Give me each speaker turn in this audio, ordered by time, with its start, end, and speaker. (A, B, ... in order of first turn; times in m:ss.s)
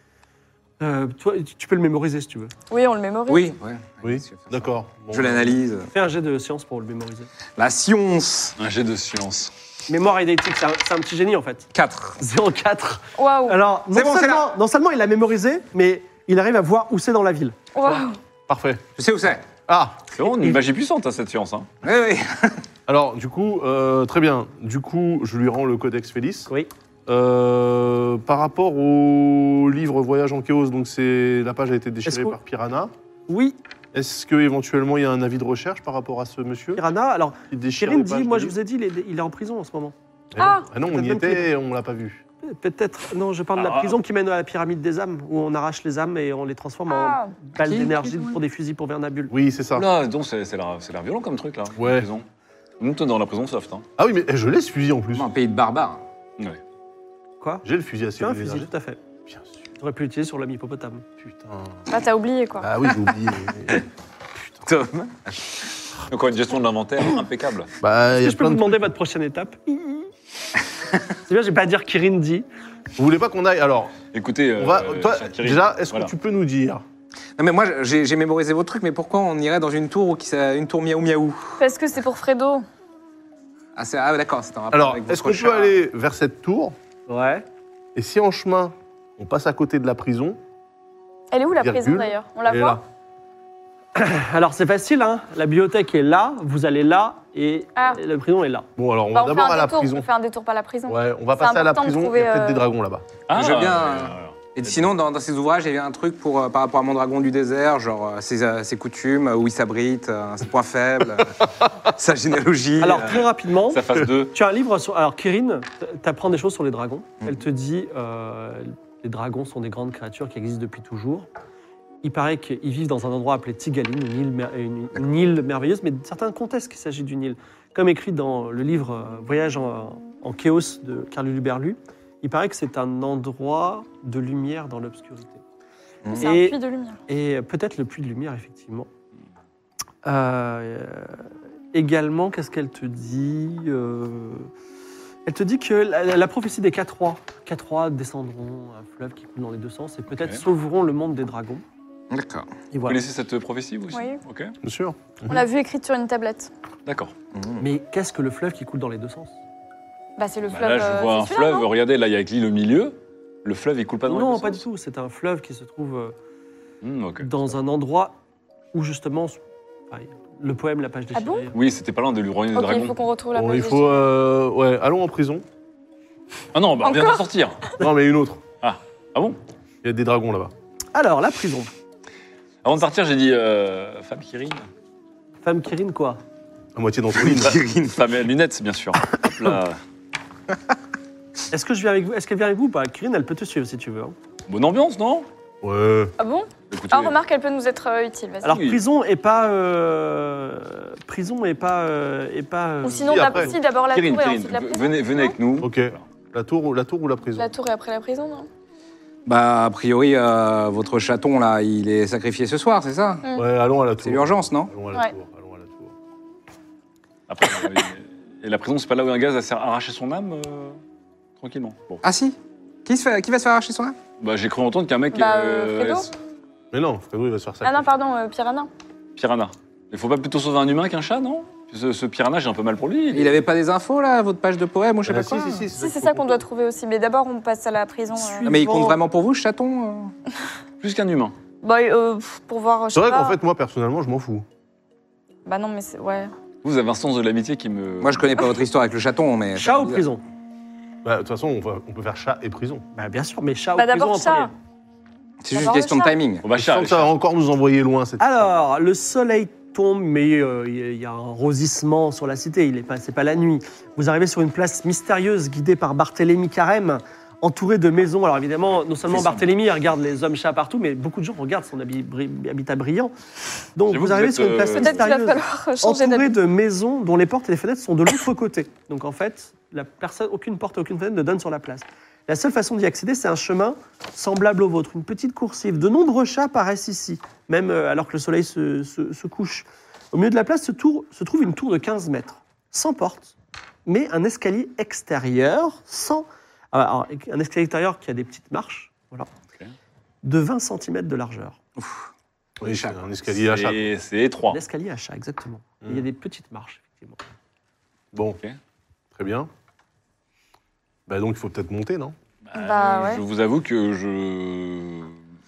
0:00.8-0:02.5 A
0:02.7-0:03.5 B
0:03.3-0:05.9 C
0:04.0-0:05.6 D
0:05.9-0:07.3 A
0:07.6-0:08.6 C
0:08.6-0:09.5 E
0:09.9-0:18.0 A
0:11.7-0:12.2 C
0:13.2-0:13.6 B
0:13.9-0:14.5 C
0:17.7-0:18.2 B
0:18.5-0:18.8 D
0:19.0-0:19.5 C
0:19.7-0:20.0 D
0:20.2-0:21.7 E
0:20.2-0:20.6 A
0:21.8-0:22.6 C
0:22.9-0:26.5 D
0:27.1-0:32.9 D
0:32.1-0:32.4 A
0:33.3-0:33.6 A
0:33.9-0:36.8 D
0:36.8-0:40.0 A
0:37.5-0:38.6 D
0:40.3-0:42.2 D
0:40.4-0:40.7 B
0:40.8-0:41.5 A
0:42.4-0:49.3 A
0:43.6-0:44.0 E
0:46.9-0:47.4 B
0:49.3-0:49.9 D
0:49.8-0:52.3 E
0:51.8-0:52.1 D
0:52.8-0:53.9 E
0:54.0-0:55.3 D
0:55.1-0:56.0 C
0:57.4-0:57.6 A
0:57.6-0:58.7 D
0:58.2-0:59.0 A
0:59.3-0:59.5 D
0:59.8-1:01.0 A
1:01.2-1:01.8 D
1:01.9-1:02.7 B
1:02.6-1:03.8 D
1:04.6-1:05.7 C
1:06.1-1:07.7 E
1:07.8-1:08.9 D
1:08.2-1:10.1 A
1:11.3-1:12.5 A
1:13.0-1:14.0 D
1:14.1-1:16.1 E
1:14.6-1:16.8 D
1:17.4-1:21.6 C
1:21.6-1:22.6 B
1:23.8-1:25.7 C
1:24.7-1:26.8 D
1:27.1-1:27.4 A
1:28.0-1:30.4 D
1:31.3-1:32.8 B
1:31.6-1:32.8 D
1:34.0-1:38.7 A
1:38.8-1:40.1 D
1:39.1-1:42.6 B
1:40.9-1:43.1 D
1:43.3-1:44.9 E
1:43.3-1:53.3 C
1:52.8-2:01.3 A
1:53.7-1:54.4 E
2:02.0-2:15.4 A
2:16.1-2:18.9 A
2:16.2-2:17.0 B
2:20.0-2:24.5 A
2:25.3-2:31.6 A
2:30.2-2:30.4 E
2:32.1-2:32.5 C
2:32.7-2:33.0 A
2:32.8-2:34.5 E
2:33.9-2:34.2 B
2:34.6-2:35.4 D
2:35.3-2:36.5 B
2:36.9-2:37.1 E
2:37.3-2:37.6 C
2:37.6-2:39.4 A
2:40.2-2:41.7 B
2:40.5-2:44.6 E
2:44.1-2:46.2 A
2:46.8-2:47.3 E
2:47.2-2:48.2 A
2:48.7-2:49.4 A
2:49.9-2:51.6 A
2:51.2-2:51.5 B
2:51.5-2:53.0 E
2:52.5-2:53.9 B
2:53.4-2:55.4 D
2:56.5-2:57.6 E
2:56.8-2:57.2 B
2:57.8-2:58.4 D
2:58.6-2:59.4 E
2:59.8-3:00.5 D
3:00.9-3:01.7 A
3:02.6-3:04.7 E
3:05.4-3:06.2 A
3:06.8-3:07.6 D
3:07.2-3:08.0 C
3:07.3-3:09.8 E
3:11.5-3:14.2 A
3:14.5-3:15.3 E
3:15.6-3:16.1 D
3:16.2-3:18.6 B
3:16.7-3:17.2 E
3:18.4-3:23.6 A
3:18.5-3:18.8 E
3:22.8-3:25.4 B
3:23.0-3:23.5 D
3:23.9-3:26.0 E
3:25.6-3:27.5 D
3:27.4-3:28.5 B
3:29.3-3:33.2 C
3:33.4-3:35.9 D
3:34.0-3:34.7 C
3:37.3-3:40.8 E
3:41.4-3:42.0 E
3:42.0-3:44.0 C
3:44.2-3:46.1 E
3:45.1-3:46.1 B
3:46.7-3:47.9 D
3:47.6-3:48.7 B
3:49.2-3:53.4 E
3:53.1-3:55.6 C
3:55.1-3:56.4 D
3:55.7-3:58.5 B
3:58.1-3:59.0 A
3:58.5-4:00.1 C
4:00.8-4:01.4 E
4:01.6-4:03.4 B
4:02.9-4:04.5 D
4:05.4-4:06.3 B
4:06.6-4:08.5 E
4:08.0-4:10.0 C
4:09.6-4:10.2 A
4:11.0-4:12.8 D
4:12.9-4:14.5 A
4:13.8-4:14.5 B
4:15.4-4:16.4 C
4:15.5-4:16.2 B
4:16.4-4:17.1 E
4:16.6-4:18.5 D
4:18.2-4:33.1 A
4:29.1-4:29.5 E
4:33.8-4:53.3 A
4:33.9-4:35.1 E
4:34.8-4:36.3 B
4:53.9-4:59.3 A
5:00.2-5:01.6 A
5:01.8-5:02.1 C
5:02.6-5:03.9 D
5:02.6-5:03.1 C
5:03.3-5:04.6 E
5:04.5-5:07.2 A
5:08.1-5:08.4 D
5:09.2-5:09.5 D
5:11.1-5:12.2 D
5:12.5-5:15.2 E
5:12.6-5:13.2 B